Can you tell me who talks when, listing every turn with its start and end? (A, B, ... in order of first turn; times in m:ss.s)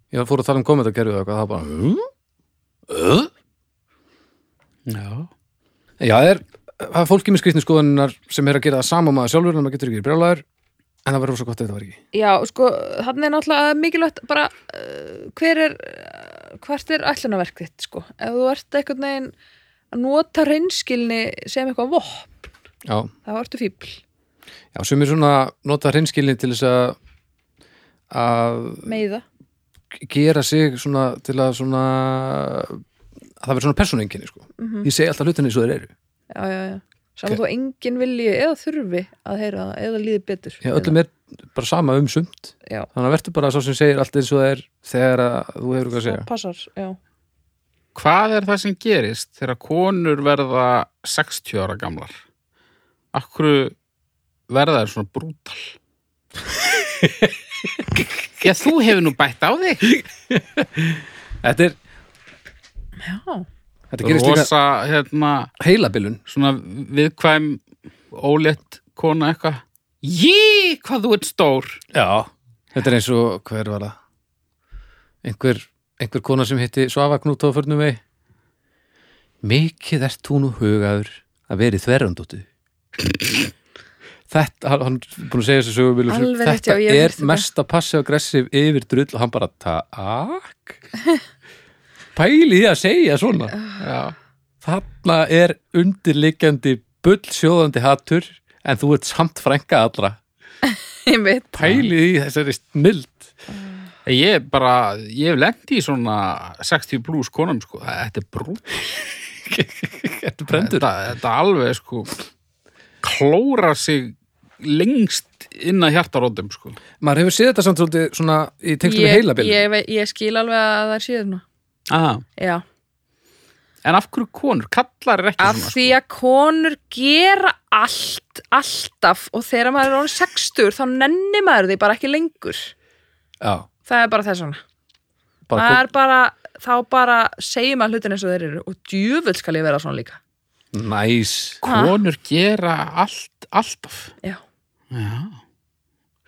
0:00.1-0:02.1 A
0:02.9-0:03.3 A
0:04.8-0:05.3 B
0:06.0-0:10.4 A
0:11.0-0:12.0 A
0:12.1-0:19.3 C
0:19.9-0:22.3 C
0:22.9-0:23.1 A
0:23.2-0:24.0 C
0:24.7-0:27.0 A
0:28.1-0:28.9 A
0:28.8-0:29.2 C
0:29.9-0:32.8 A
0:33.4-0:35.9 A
0:34.6-0:34.9 C
0:36.3-0:40.9 C
0:40.6-0:46.2 A
0:46.0-0:47.0 C
0:47.9-0:52.2 B
0:53.1-0:53.7 B
0:54.5-0:55.7 B
0:56.7-0:58.0 A
0:58.4-1:00.0 B
1:00.3-1:01.8 A
1:03.0-1:03.5 C
1:03.9-1:04.5 A
1:04.0-1:05.5 B
1:05.6-1:06.2 A
1:06.3-1:11.8 B
1:11.9-1:14.0 A
1:15.2-1:18.0 A
1:19.4-1:22.4 A
1:24.3-1:30.8 A
1:26.1-1:27.4 C
1:32.1-1:33.5 A
1:33.8-1:34.1 B
1:34.6-1:40.2 A
1:40.7-1:41.6 C
1:41.5-1:43.3 A
1:44.0-1:48.9 B
1:49.4-1:50.9 A
1:50.5-1:52.1 B
1:53.0-1:56.8 B
1:57.0-1:59.6 A
1:58.8-2:01.4 C
2:01.9-2:02.2 B
2:02.4-2:02.6 C
2:03.8-2:06.0 B
2:05.4-2:12.7 C
2:13.4-2:13.7 A
2:13.9-2:14.6 C
2:15.5-2:15.8 A
2:15.5-2:20.2 C
2:20.7-2:21.6 A
2:21.6-2:24.1 B
2:21.6-2:22.0 C
2:24.9-2:25.4 B